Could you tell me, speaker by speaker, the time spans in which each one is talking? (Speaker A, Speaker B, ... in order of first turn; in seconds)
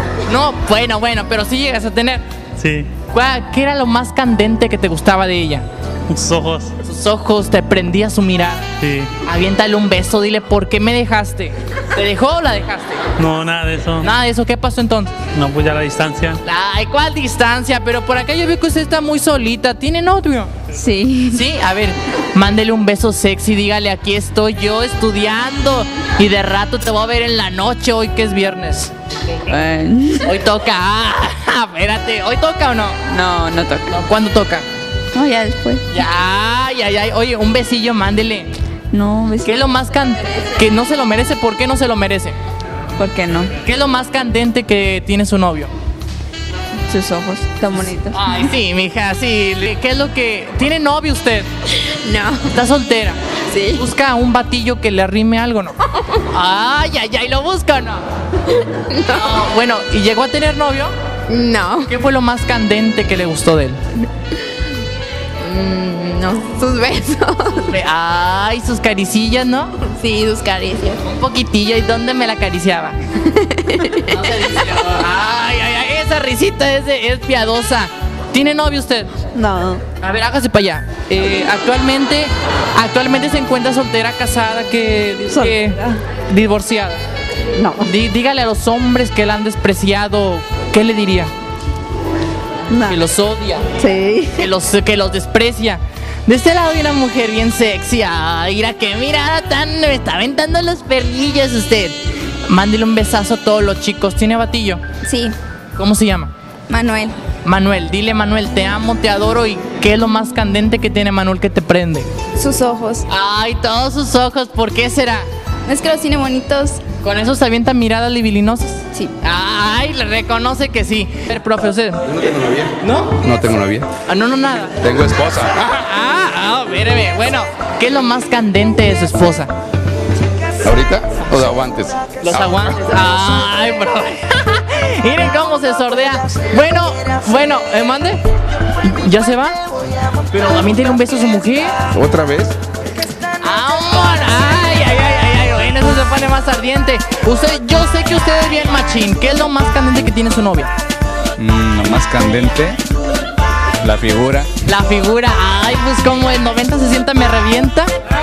Speaker A: 0.2-2.2, 3.1-5.7, 6.8-8.6, 9.2-13.1, 14.0-15.1, 16.4-20.5, 21.3-28.9, 30.2-33.0, 33.9-34.6, 35.9-38.5, 39.4-42.4, 43.6-45.7, 48.1-51.5, 52.5-53.2, 53.7-58.0, 59.0-60.9, 61.8-63.8, 67.5-69.7, 71.0-73.0, 74.0-79.1, 80.0-87.0, 87.8-91.3, 92.8-93.7, 94.3-104.8, 105.8-106.3, 107.4-112.1, 113.1-115.3, 117.0-122.0, 122.8-123.2, 124.1-124.8, 125.5-129.5, 132.2-138.2, 138.8-139.6, 140.3-141.7, 143.4-150.7, 154.6-157.9
Speaker B: 2.6-2.9, 6.1-6.7, 8.8-9.1, 13.2-14.1, 15.3-16.4
Speaker C: 20.7-21.4, 29.5-30.3, 33.1-33.9, 35.1-35.8, 38.9-39.6, 43.0-43.5, 46.9-48.3, 51.8-52.5, 53.5-53.8, 58.9-59.4, 61.3-61.9, 65.4-67.7, 69.8-71.0, 73.3-74.0, 79.3-79.8, 85.3-86.0, 87.6-87.9, 92.7-93.0, 93.8-94.4, 105.0-105.3, 106.7-107.2, 112.3-113.0, 115.7-116.8
Speaker D: 122.2-123.9, 124.8-125.5, 130.6-132.6, 141.9-142.5, 151.4-152.8, 153.8-154.5